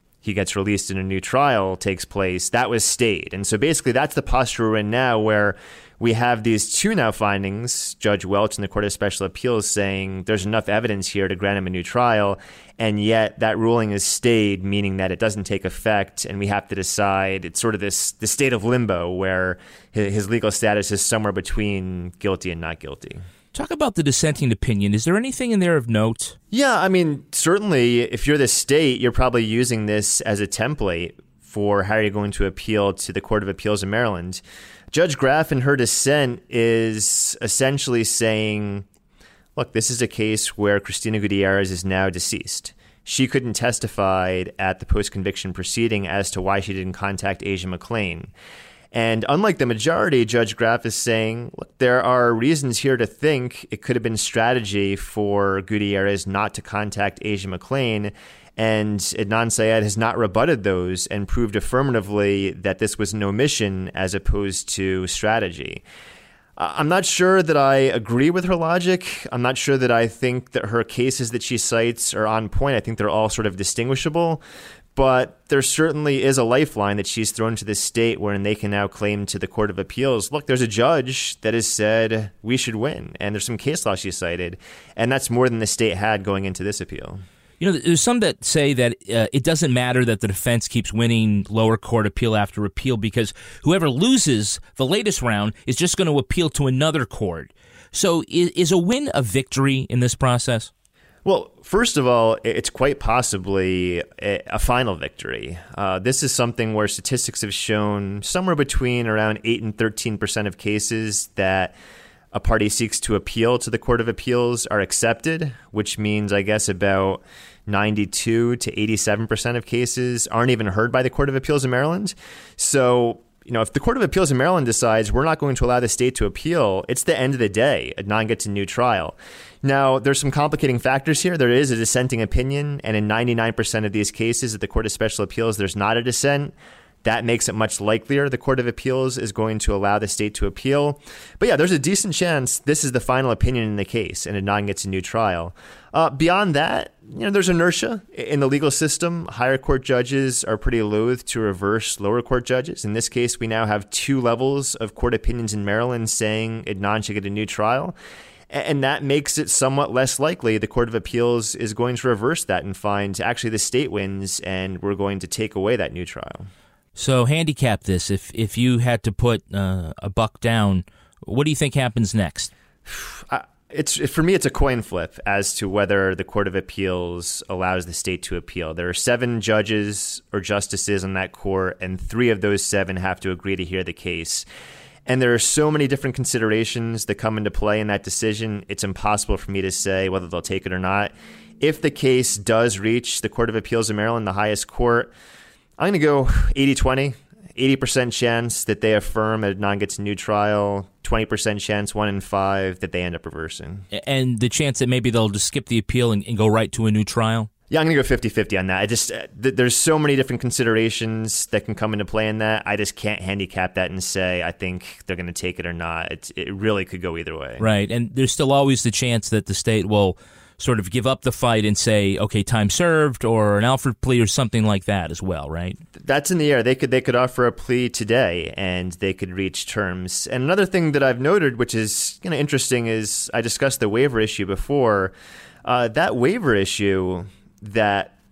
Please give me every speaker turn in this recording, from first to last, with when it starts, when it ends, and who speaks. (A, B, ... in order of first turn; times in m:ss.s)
0:00.2-0:23.2 A
0:23.5-0:26.4 B
0:26.5-0:38.8 A
0:39.6-0:48.3 A
0:48.9-1:05.8 A
1:06.6-1:14.4 A
1:14.9-1:27.2 A
1:27.6-1:40.7 B
1:41.2-1:51.7 A
1:52.3-2:37.9 A
2:38.5-2:46.5 A
2:47.0-2:52.5 B
2:52.9-3:04.4 A
3:05.1-3:15.1 A
3:15.8-3:23.8 A
3:23.9-3:27.5 B
3:27.7-3:37.6 A
3:37.6-3:45.8 B
3:46.0-3:55.1 A
3:55.6-3:58.1 A